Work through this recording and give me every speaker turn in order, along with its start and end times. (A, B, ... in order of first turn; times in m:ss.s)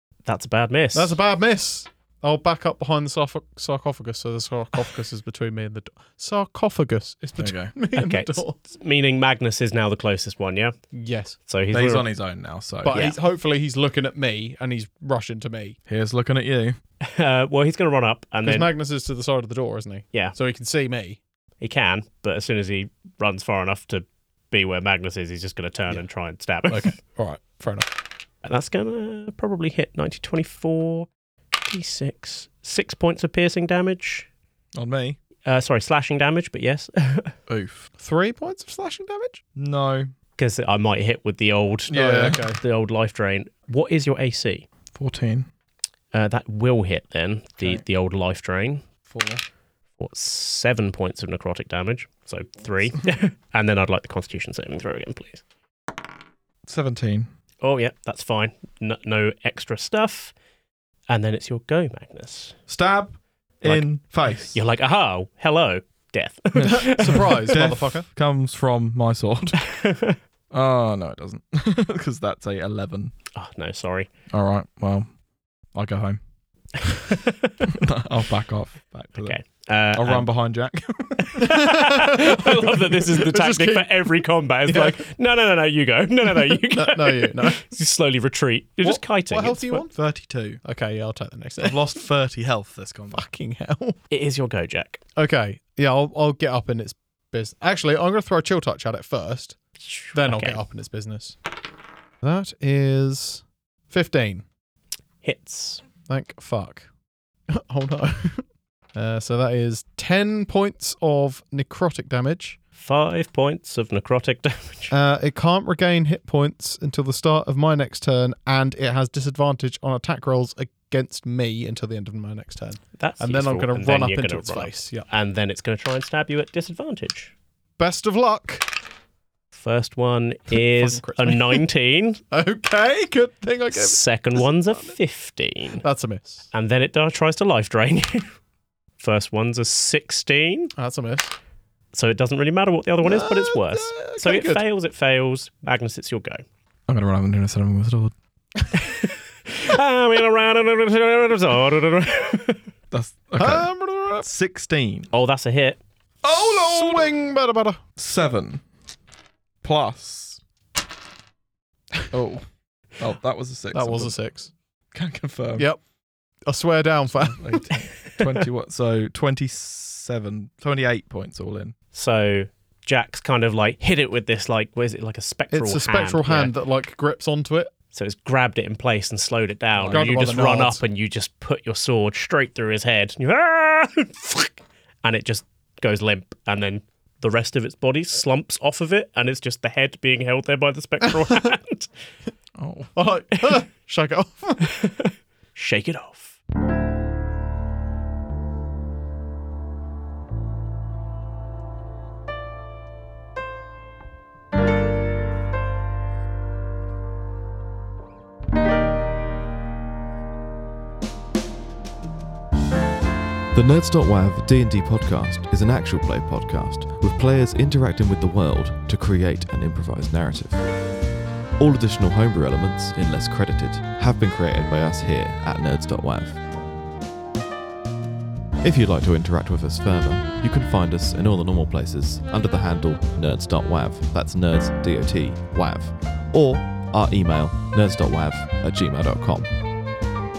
0:00.3-0:01.1 A
0:00.9-0:08.6 B
0:07.4-0:07.7 C
0:07.9-0:10.8 A
0:10.9-0:11.4 B
0:11.5-0:12.1 A
0:11.7-0:13.0 C
0:12.8-0:15.8 B
0:12.9-0:13.2 A
0:15.9-0:16.8 C
0:17.0-0:18.7 A
0:18.4-0:21.2 B
0:21.6-0:26.9 A
0:26.7-0:27.9 B
0:28.4-0:31.1 A
0:31.6-0:34.3 A
0:34.8-0:35.2 C
0:35.5-0:37.4 A
0:37.5-0:37.9 C
0:38.0-0:39.4 B
0:39.6-0:40.1 C
0:40.4-0:44.7 A
0:41.9-0:42.4 C
0:41.9-0:42.6 B
0:45.0-0:45.5 C
0:46.1-0:48.8 A
0:49.1-0:49.4 C
0:50.0-0:55.4 A
0:56.6-0:57.3 C
0:57.6-1:00.3 A
1:01.1-1:02.6 A
1:02.7-1:04.6 C
1:03.6-1:07.5 A
1:06.5-1:09.6 C
1:06.6-1:08.1 B
1:09.6-1:10.2 A
1:10.5-1:13.1 C
1:13.3-1:14.1 A
1:14.3-1:15.1 C
1:15.7-1:16.2 C
1:16.9-1:17.6 A
1:17.6-1:19.4 C
1:19.2-1:20.3 A
1:19.9-1:21.5 C
1:21.2-1:29.8 A
1:21.4-1:24.1 B
1:24.7-1:25.0 B
1:26.4-1:27.6 B
1:29.3-1:29.9 B
1:29.9-1:30.6 C
1:30.6-1:31.9 B
1:31.6-1:33.2 C
1:33.1-1:34.0 B
1:34.1-1:35.0 A
1:35.2-1:39.6 B
1:39.8-1:40.6 A
1:40.1-1:41.4 B
1:42.2-1:44.4 B
1:45.2-1:45.8 A
1:46.1-1:46.9 B
1:47.5-1:48.4 B
1:49.0-1:52.6 B
1:52.8-1:54.9 A
1:54.9-2:05.1 B
2:03.0-2:07.3 A
2:07.8-2:08.7 B
2:09.5-2:12.2 A
2:10.6-2:11.6 B
2:12.3-2:15.0 B
2:13.7-2:15.8 A
2:15.8-2:16.5 B
2:16.5-2:18.3 A
2:19.0-2:20.7 A
2:20.8-2:21.3 B
2:21.9-2:26.4 A
2:23.0-2:24.6 B
2:26.9-2:28.1 C
2:28.7-2:32.6 A
2:32.9-2:33.7 C
2:33.4-2:34.3 B
2:34.2-2:35.1 C
2:35.1-2:35.8 A
2:36.2-2:37.1 C
2:36.3-2:37.8 B
2:38.0-2:38.6 C
2:39.6-2:40.4 C
2:42.1-2:42.4 C
2:43.0-2:44.2 C
2:43.7-2:44.5 B
2:44.9-2:45.7 C
2:46.5-2:47.6 B
2:47.2-2:51.7 C
2:47.7-2:48.4 A
2:51.9-2:56.5 A
2:55.5-2:57.7 B
2:57.9-3:11.9 A
2:59.8-3:00.2 C
2:59.9-3:00.8 B
3:12.6-3:12.9 C
3:13.0-3:14.7 B
3:14.7-3:16.4 A
3:33.5-3:40.6 D
3:41.6-3:46.4 D
3:48.6-3:59.6 D